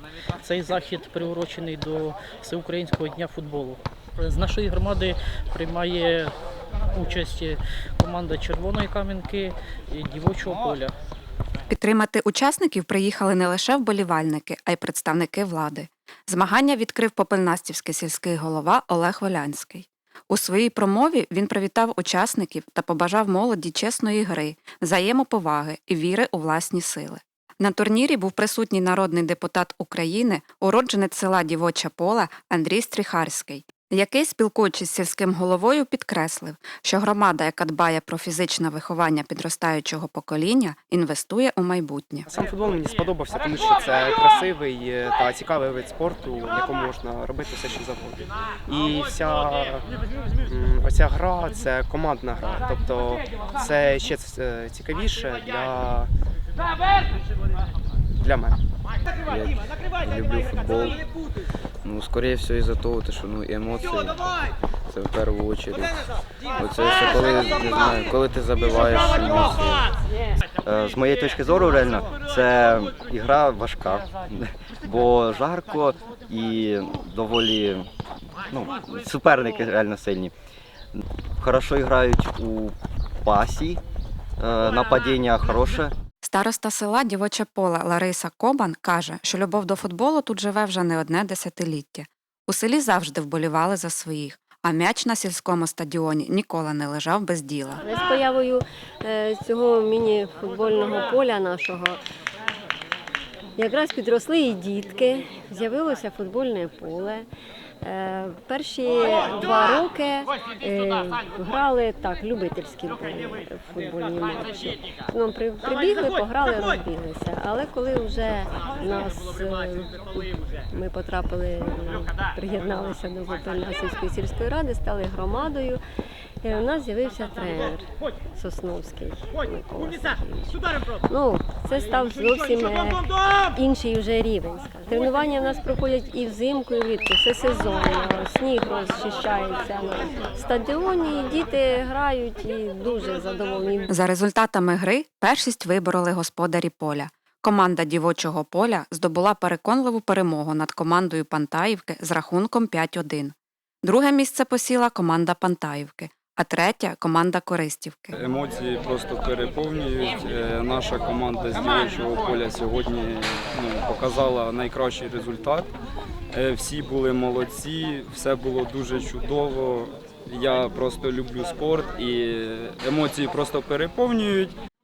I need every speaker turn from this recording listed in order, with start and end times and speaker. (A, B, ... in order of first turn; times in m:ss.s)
0:00.4-0:06.3 A
0:06.9-0:10.9 A
0:11.7-0:42.3 B
0:42.3-0:49.9 C
0:50.4-0:56.1 C
0:58.2-0:58.6 C
0:59.2-1:01.0 D
1:01.8-1:04.2 D
1:04.9-1:09.9 D
1:10.6-1:17.9 E
1:18.4-1:20.3 E
1:21.4-1:23.8 E
1:24.4-1:25.9 E
1:26.2-1:37.8 B
1:37.8-1:42.0 F
1:43.6-1:47.3 F
1:47.8-2:05.8 F
2:06.4-2:23.9 F
2:23.9-2:38.2 B
2:38.1-2:45.7 G
2:46.3-2:54.6 G